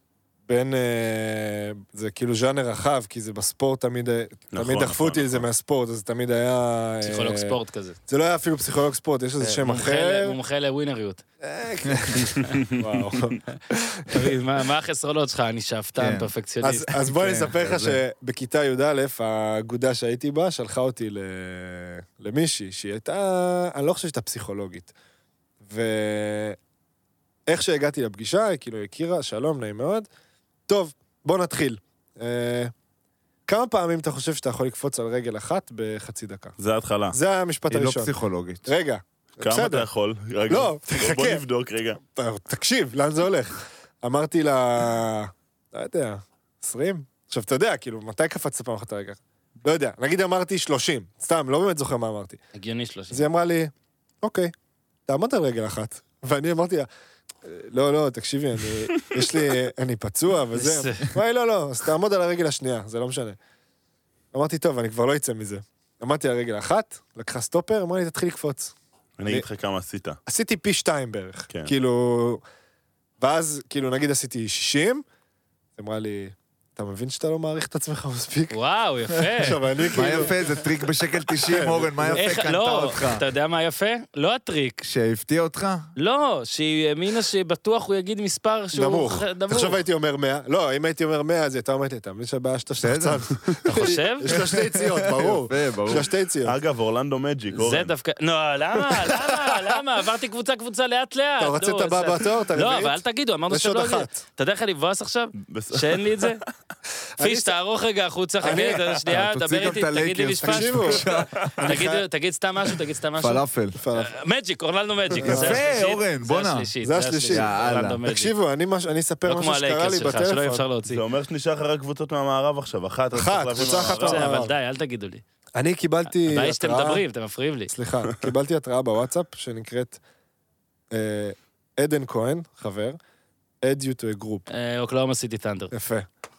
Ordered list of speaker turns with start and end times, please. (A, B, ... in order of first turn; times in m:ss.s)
0:00.5-0:07.6 A
0:04.5-0:05.5 B
0:07.0-0:08.0 C
0:08.1-0:10.4 A
0:09.4-0:11.2 C
0:11.4-0:14.3 A
0:13.5-0:17.0 C
0:16.0-0:16.3 D
0:16.6-0:24.9 A
0:17.1-0:18.0 D
0:25.6-0:26.6 A
0:27.5-0:30.1 A
0:30.7-0:32.7 A
0:33.5-0:36.6 A
0:36.6-0:37.2 B
0:37.1-0:38.1 A
0:37.7-0:38.7 D
0:38.6-0:39.9 A
0:39.4-0:42.0 B
0:40.5-0:41.4 A
0:42.1-0:52.4 A
0:52.5-0:53.3 C
0:53.1-0:54.5 A
0:55.1-0:56.9 A
0:57.4-1:03.4 A
1:00.6-1:01.1 C
1:04.3-1:08.7 A
1:09.2-1:10.2 B
1:10.3-1:12.4 A
1:13.2-1:15.0 A
1:15.8-1:18.6 A
1:18.5-1:20.5 C
1:19.4-1:20.3 A
1:20.0-1:23.2 D
1:21.5-1:22.3 A
1:22.2-1:24.8 C
1:24.8-1:25.9 D
1:26.0-1:29.8 C
1:28.7-1:36.6 A
1:32.8-1:33.2 D
1:33.7-1:34.4 C
1:34.3-1:36.1 D
1:36.4-1:37.9 B
1:37.5-1:46.4 C
1:41.4-1:44.2 A
1:45.4-1:46.3 B
1:47.2-1:47.5 A
1:47.2-1:51.1 C
1:48.4-1:49.0 A
1:49.1-1:51.6 D
1:50.4-1:51.0 A
1:51.6-1:58.3 C
1:51.6-1:52.0 A
1:53.2-1:53.8 D
1:53.8-1:54.1 A
1:55.2-1:55.6 A
1:55.2-1:56.7 D
1:56.8-1:57.5 A
1:57.3-1:58.0 D
1:58.0-2:00.6 A
1:59.3-2:01.0 C
2:00.9-2:04.3 B
2:03.1-2:04.5 A
2:03.6-2:05.2 C
2:05.6-2:07.0 A
2:06.2-2:07.7 C
2:07.7-2:10.0 A
2:10.9-2:13.0 A
2:13.6-2:14.5 A
2:14.5-2:15.7 C
2:15.7-2:16.1 A